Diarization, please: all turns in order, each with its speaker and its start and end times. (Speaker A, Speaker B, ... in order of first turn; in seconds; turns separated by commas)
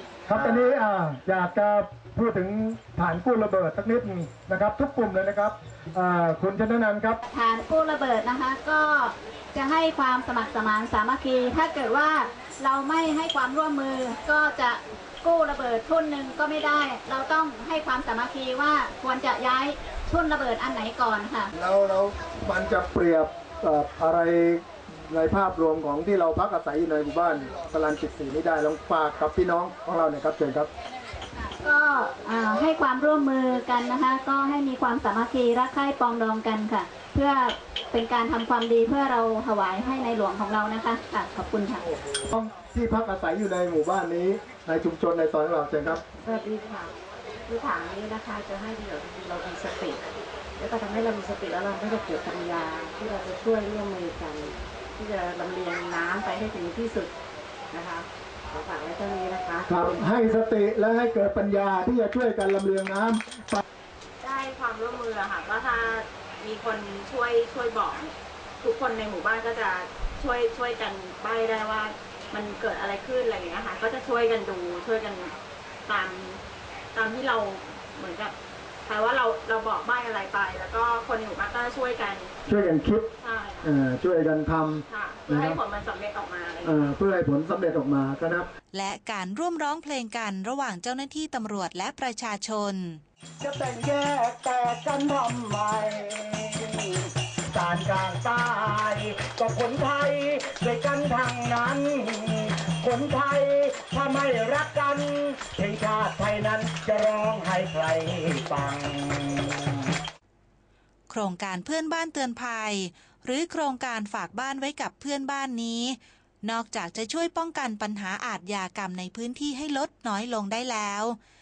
Speaker A: 0.3-7.2, Speaker B: 7.3-21.5, Speaker A: 21.5-30.7, Speaker B: 31.4-41.8, Speaker A: 42.3-46.0, Speaker C: 45.9-46.9, Speaker C: 47.5-50.0, Speaker C: 50.6-57.1, Speaker C: 57.7-59.7, Speaker A: 59.6-63.6, Speaker D: 64.2-75.3, Speaker D: 75.9-76.4, Speaker D: 76.9-78.3, Speaker D: 78.9-82.3, Speaker A: 82.5-83.1, Speaker D: 83.2-83.7, Speaker A: 83.6-85.6, Speaker D: 84.9-86.9, Speaker A: 86.6-88.5, Speaker E: 88.7-93.0, Speaker F: 93.4-109.9, Speaker E: 111.1-121.2